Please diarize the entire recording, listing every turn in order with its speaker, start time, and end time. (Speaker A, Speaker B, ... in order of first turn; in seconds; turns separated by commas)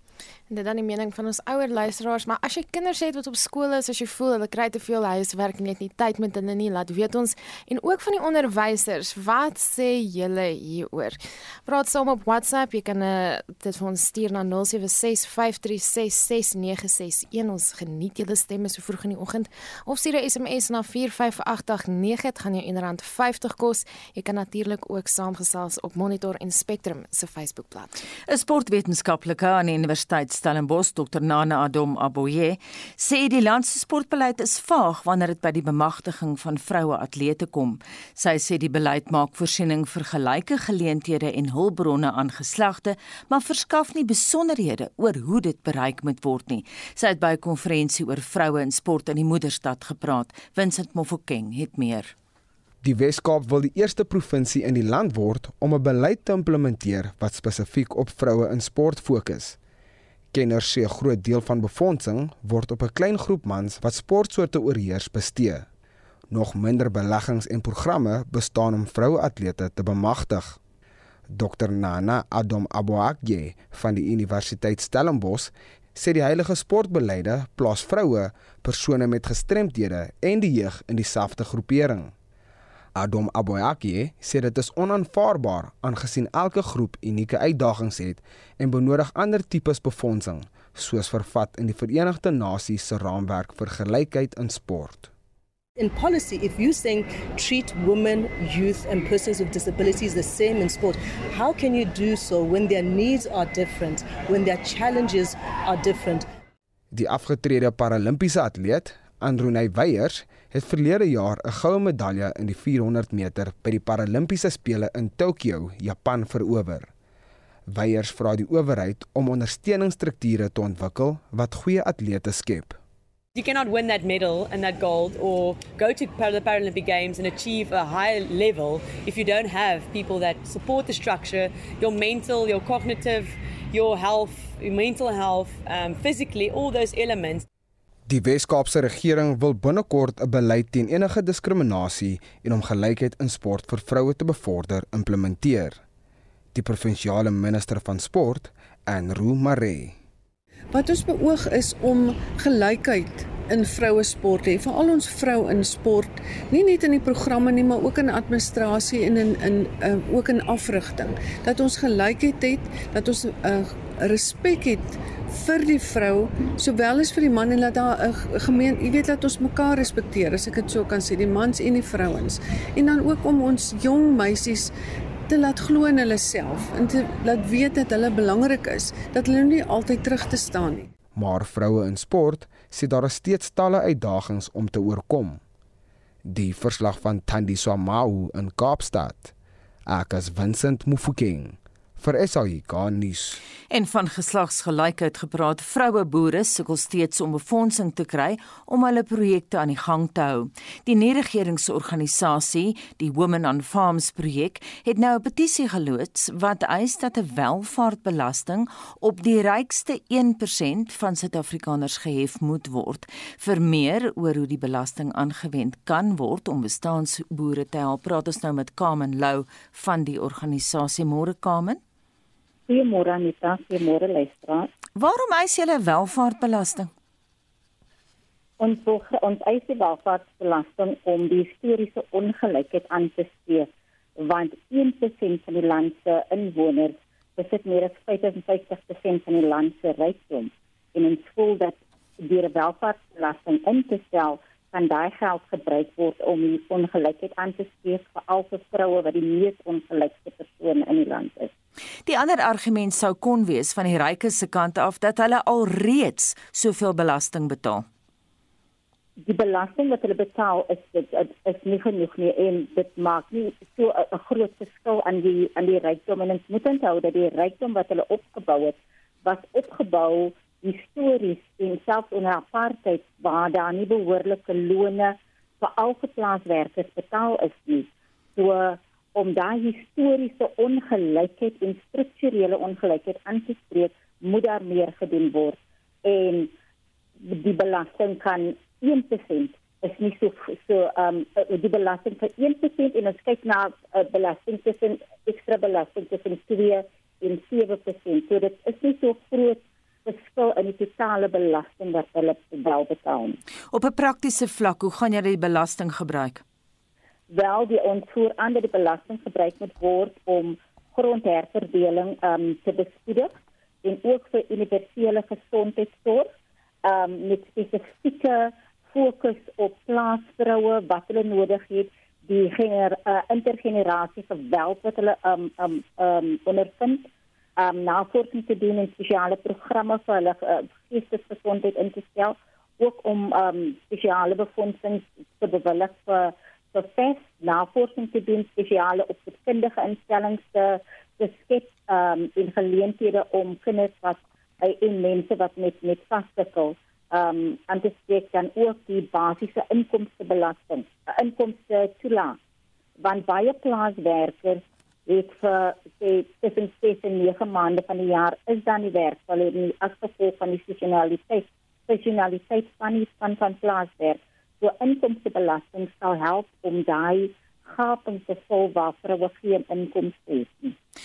Speaker A: 0.5-27.9, Speaker B: 28.3-52.1, Speaker C: 52.8-59.6, Speaker C: 60.3-65.7, Speaker C: 66.3-70.6, Speaker C: 71.3-82.1, Speaker C: 83.0-95.1, Speaker D: 95.8-106.3, Speaker C: 106.9-116.9, Speaker C: 117.7-122.8, Speaker E: 123.3-137.5, Speaker C: 138.1-145.8, Speaker C: 146.5-150.0, Speaker F: 150.7-174.7, Speaker F: 175.3-180.9, Speaker C: 181.2-185.4, Speaker C: 186.2-189.3, Speaker C: 189.9-193.4, Speaker B: 193.7-221.8, Speaker G: 222.7-224.7, Speaker B: 225.0-226.9, Speaker G: 228.6-251.5, Speaker B: 252.1-257.9, Speaker G: 259.2-286.5, Speaker G: 287.2-303.4, Speaker B: 303.7-306.4, Speaker G: 307.3-316.3, Speaker G: 316.9-327.1, Speaker G: 327.6-352.4, Speaker G: 353.0-370.8